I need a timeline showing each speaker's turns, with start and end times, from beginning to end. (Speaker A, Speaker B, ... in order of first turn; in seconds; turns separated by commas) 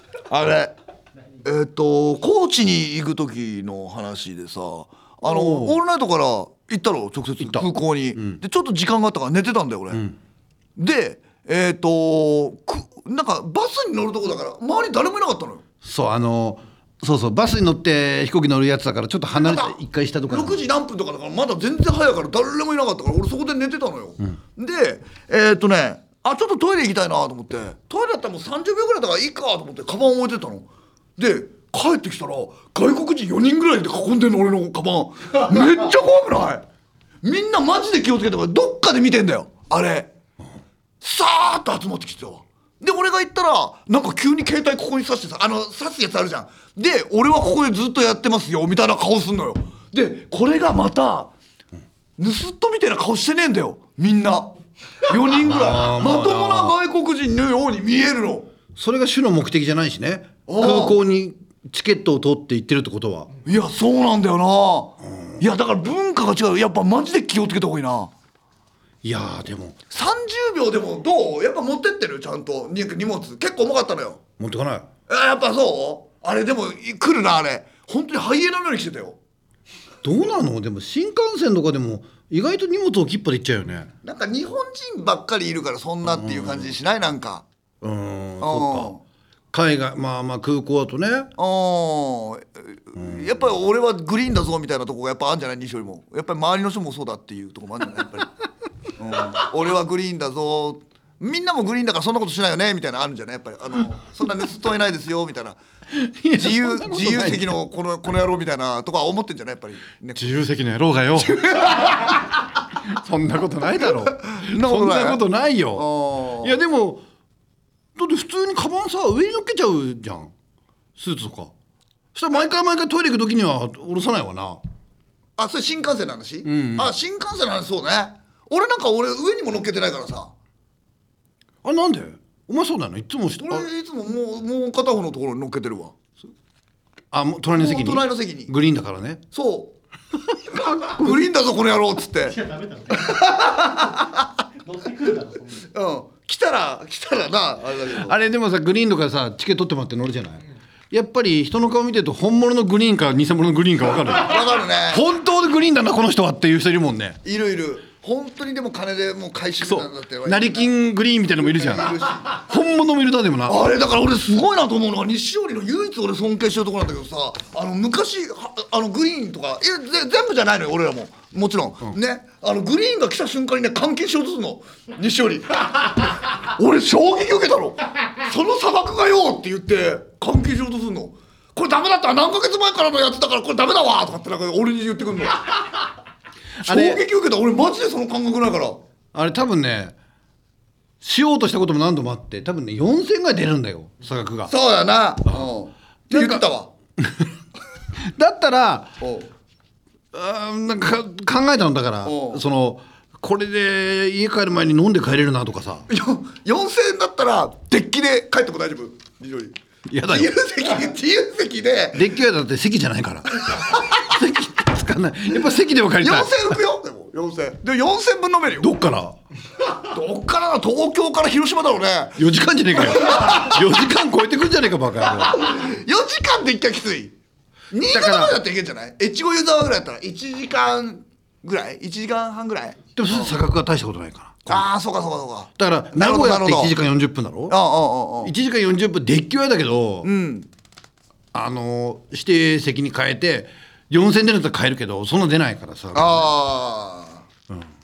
Speaker A: 0.3-0.7, Speaker A: 1.4-10.0, Speaker B: 5.2-5.8, Speaker B: 7.4-8.4, Speaker B: 9.9-10.2, Speaker A: 10.8-15.6, Speaker B: 15.8-20.6, Speaker A: 19.4-19.7, Speaker A: 20.3-36.6, Speaker A: 37.2-40.1, Speaker A: 41.0-51.3, Speaker A: 52.2-58.5, Speaker B: 55.4-56.8, Speaker B: 58.7-63.3, Speaker A: 60.5-61.0, Speaker A: 63.4-68.1, Speaker B: 65.0-65.4, Speaker B: 69.0-69.8, Speaker A: 69.9-74.2, Speaker B: 74.4-74.9, Speaker A: 75.1-79.2, Speaker B: 80.0-83.9, Speaker A: 84.0-87.4, Speaker B: 86.0-86.7, Speaker B: 87.8-88.9, Speaker A: 88.4-89.0, Speaker B: 89.5-91.3, Speaker A: 91.4-98.3, Speaker B: 93.0-93.4, Speaker A: 99.0-105.6, Speaker B: 105.9-107.5, Speaker A: 106.3-110.4, Speaker B: 110.2-111.7, Speaker A: 111.2-112.2, Speaker B: 112.7-117.0, Speaker A: 114.2-115.2, Speaker A: 115.7-116.6, Speaker B: 118.0-120.3, Speaker B: 121.0-121.5, Speaker B: 122.1-124.6, Speaker A: 125.4-130.3, Speaker B: 126.4-126.9, Speaker B: 131.6-133.7, Speaker A: 133.4-135.9, Speaker B: 137.1-139.2, Speaker A: 137.5-138.5, Speaker A: 139.3-139.8, Speaker B: 140.5-141.0, Speaker A: 140.6-142.4, Speaker C: 142.2-143.3, Speaker A: 142.9-144.2, Speaker C: 144.6-145.7, Speaker A: 145.7-148.2, Speaker B: 147.9-157.2, Speaker A: 154.1-155.0, Speaker A: 157.2-160.7, Speaker B: 159.6-163.6, Speaker A: 161.4-162.4, Speaker A: 163.5-185.5, Speaker B: 186.6-187.0, Speaker A: 186.6-188.8, Speaker B: 189.1-189.9, Speaker B: 191.0-194.5, Speaker A: 194.5-196.7, Speaker B: 196.1-196.4, Speaker B: 197.0-197.3, Speaker B: 198.0-198.9, Speaker A: 199.0-199.3, Speaker B: 200.1-205.8, Speaker A: 202.0-202.4, Speaker A: 205.9-212.1, Speaker B: 209.9-210.3, Speaker B: 211.9-216.6, Speaker A: 213.5-213.9, Speaker A: 216.0-218.7, Speaker B: 218.6-219.2, Speaker A: 219.8-222.2, Speaker B: 222.2-225.6, Speaker A: 222.7-223.7, Speaker A: 225.2-227.1, Speaker A: 227.7-233.4, Speaker B: 227.9-228.4, Speaker B: 232.9-234.7, Speaker A: 234.5-236.7, Speaker B: 235.6-237.6, Speaker A: 237.5-238.3, Speaker B: 238.2-240.1, Speaker A: 240.0-240.5, Speaker B: 241.3-246.3, Speaker A: 245.9-247.3